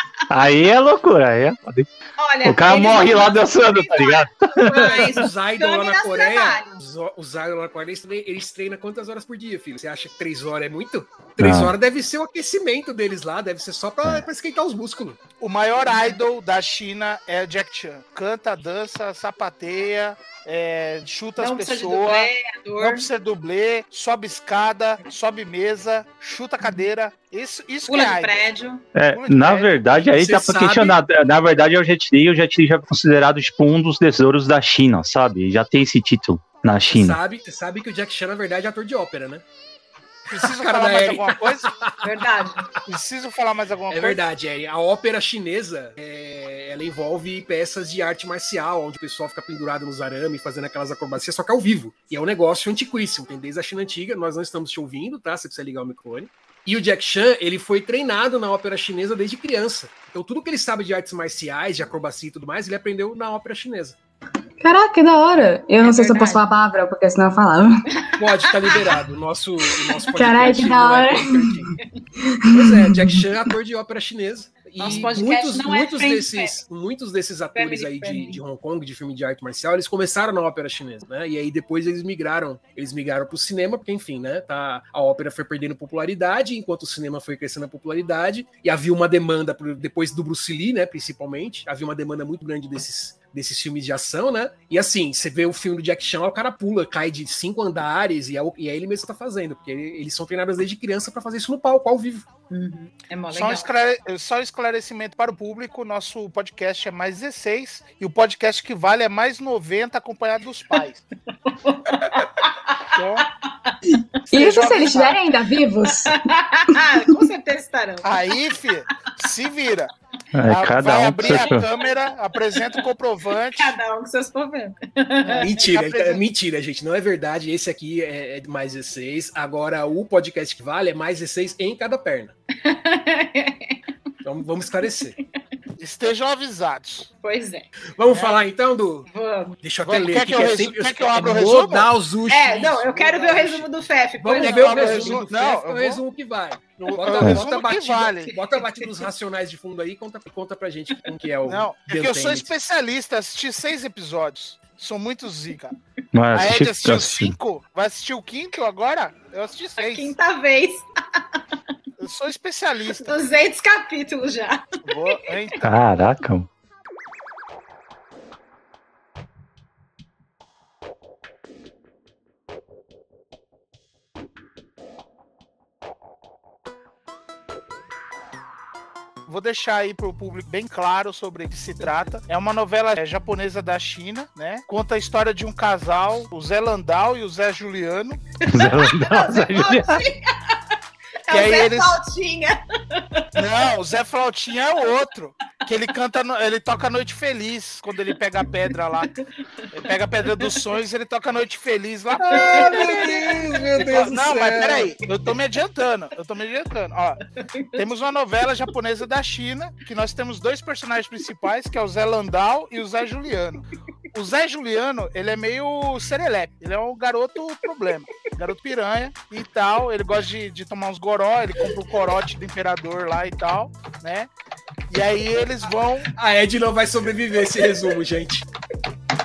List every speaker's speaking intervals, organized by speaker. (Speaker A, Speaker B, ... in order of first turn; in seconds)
Speaker A: 0.3-1.9, 2.4-5.1, 11.4-11.7, 28.9-37.2, 120.3-121.7, 156.1-157.3, 165.6-166.5, 188.5-190.0
Speaker B: 2.2-6.7, 21.4-23.1, 27.9-28.8, 42.0-42.6, 65.8-66.4, 68.3-68.9, 69.9-70.7, 74.8-76.6, 77.5-78.4, 102.5-103.7, 111.5-112.8, 114.3-114.7, 116.2-118.7, 121.2-121.9, 122.5-122.8, 123.5-125.5, 132.6-133.8, 137.2-137.7, 139.1-139.6, 142.3-145.2, 148.3-148.6, 159.8-160.8, 163.0-165.1, 188.5-190.7, 191.2-193.2, 202.3-203.2
Speaker C: 4.5-15.2, 30.1-30.9, 36.9-39.4, 40.3-42.1, 43.9-64.0, 68.2-71.6, 72.5-102.2, 125.4-132.3, 134.2-135.2, 137.9-139.1, 139.6-152.5, 202.4-204.9, 226.1-228.4
Speaker D: 15.4-28.5, 29.1-29.8, 40.3-41.7, 42.9-44.2, 103.3-111.0, 112.9-113.3, 114.3-115.2, 118.0-119.9, 120.5-123.7, 125.2-126.2, 135.8-137.1, 138.1-138.4, 139.8-141.9, 144.4-146.0, 146.8-148.3, 151.4-155.7, 156.3-160.1, 162.0-163.2, 164.8-165.7, 179.3-188.2, 191.3-192.0, 193.3-199.1, 199.7-207.2, 207.8-224.3, 224.9-226.1
Speaker E: 64.6-67.7, 70.2-71.7, 72.4-73.3, 114.3-116.2, 116.7-117.1